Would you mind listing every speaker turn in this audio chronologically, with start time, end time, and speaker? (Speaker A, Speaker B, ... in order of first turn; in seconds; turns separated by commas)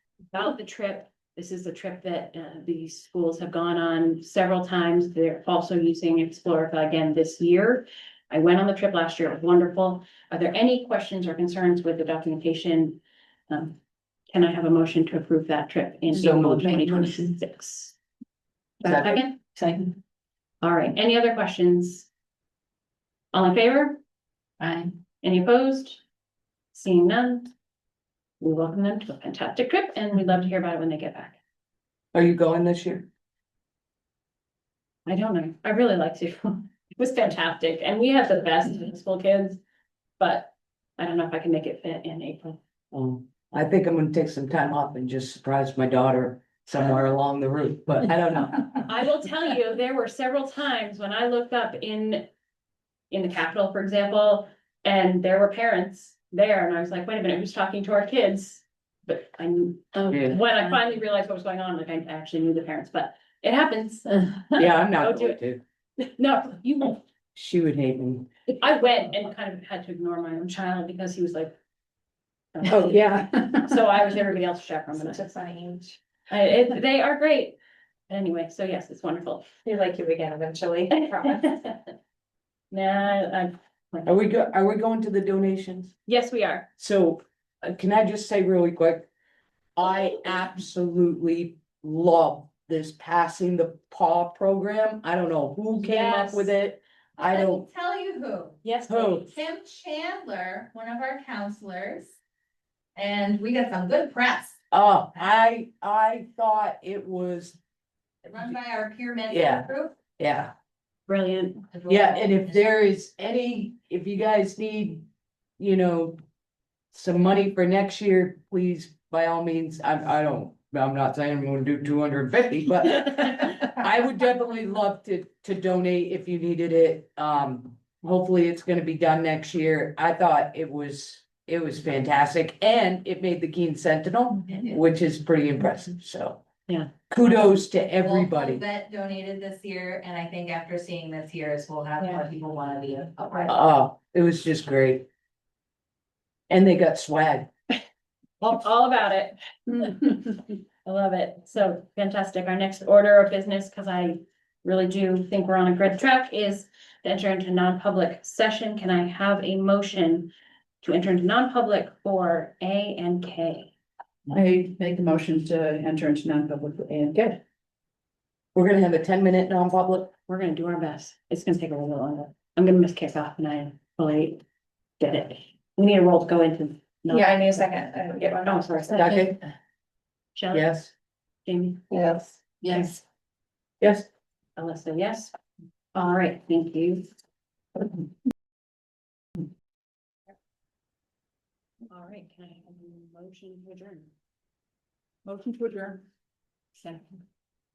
Speaker A: 0.3-13.8, Speaker A: 14.3-17.9, Speaker B: 16.1-17.3, Speaker B: 18.8-19.2, Speaker A: 18.8-19.3, Speaker A: 20.6-22.1, Speaker A: 23.3-24.0, Speaker A: 25.2-26.0, Speaker A: 26.7-27.5, Speaker A: 28.4-31.4, Speaker B: 32.1-33.1, Speaker A: 35.0-39.6, Speaker A: 40.2-42.6, Speaker B: 42.9-48.8, Speaker A: 48.8-52.3, Speaker A: 53.1-65.4, Speaker B: 60.1-60.4, Speaker B: 64.6-65.6, Speaker A: 66.0-67.0, Speaker B: 67.3-68.3, Speaker A: 68.5-71.5, Speaker A: 72.5-75.2, Speaker B: 72.7-73.2, Speaker C: 75.0-76.0, Speaker A: 76.3-77.6, Speaker A: 78.1-79.5, Speaker C: 79.6-81.4, Speaker A: 80.9-81.9, Speaker A: 82.7-84.1, Speaker B: 84.0-85.9, Speaker A: 86.0-86.7, Speaker B: 86.8-89.1, Speaker B: 89.8-97.6, Speaker A: 95.8-96.5, Speaker D: 97.2-98.7, Speaker A: 98.6-99.2, Speaker B: 98.9-99.3, Speaker D: 99.2-102.1, Speaker D: 103.0-104.5, Speaker B: 104.7-107.6, Speaker D: 108.2-110.0, Speaker B: 109.3-110.5, Speaker A: 111.1-111.6, Speaker D: 111.7-112.6, Speaker B: 111.9-115.1, Speaker B: 115.6-116.2, Speaker B: 116.9-136.4, Speaker B: 137.1-138.6, Speaker D: 137.9-143.6, Speaker B: 143.5-145.1, Speaker B: 146.5-147.5, Speaker A: 148.4-160.3, Speaker A: 160.8-163.7, Speaker E: 164.3-167.4, Speaker B: 168.5-170.1, Speaker A: 170.3-174.4, Speaker A: 175.0-177.7, Speaker C: 177.1-179.1, Speaker A: 178.4-179.3, Speaker B: 178.9-179.4, Speaker A: 180.3-180.7, Speaker B: 180.5-180.9, Speaker A: 181.4-181.8, Speaker C: 181.9-183.0, Speaker A: 182.7-182.9, Speaker B: 183.8-184.1, Speaker A: 184.6-185.3, Speaker A: 185.9-187.1, Speaker A: 191.9-194.1, Speaker E: 195.2-196.0